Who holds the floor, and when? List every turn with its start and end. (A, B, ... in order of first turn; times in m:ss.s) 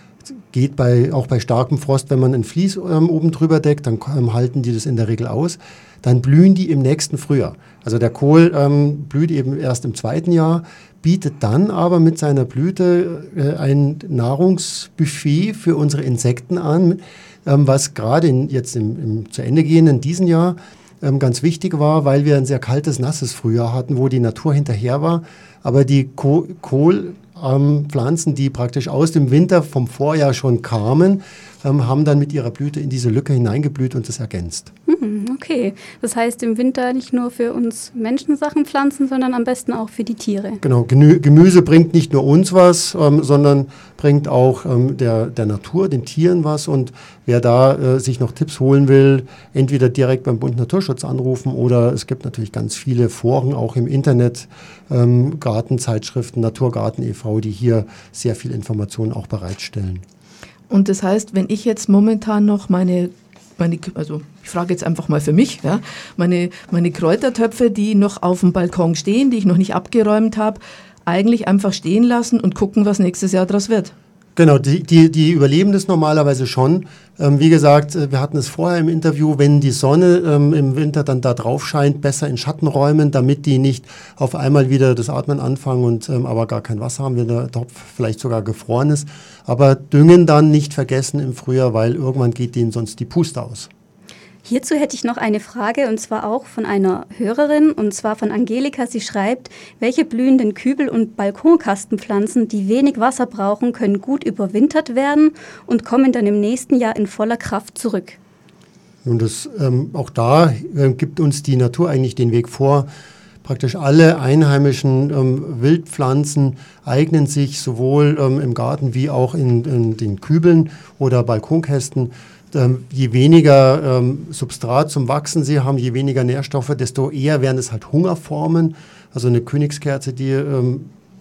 0:00.2-0:34.7 A
0:34.9-0:40.6 B
0:40.6-1:00.0 A
1:00.7-1:13.9 C
1:14.4-1:33.7 A
1:34.4-1:48.2 B
1:49.0-1:52.9 A
1:53.4-2:10.9 A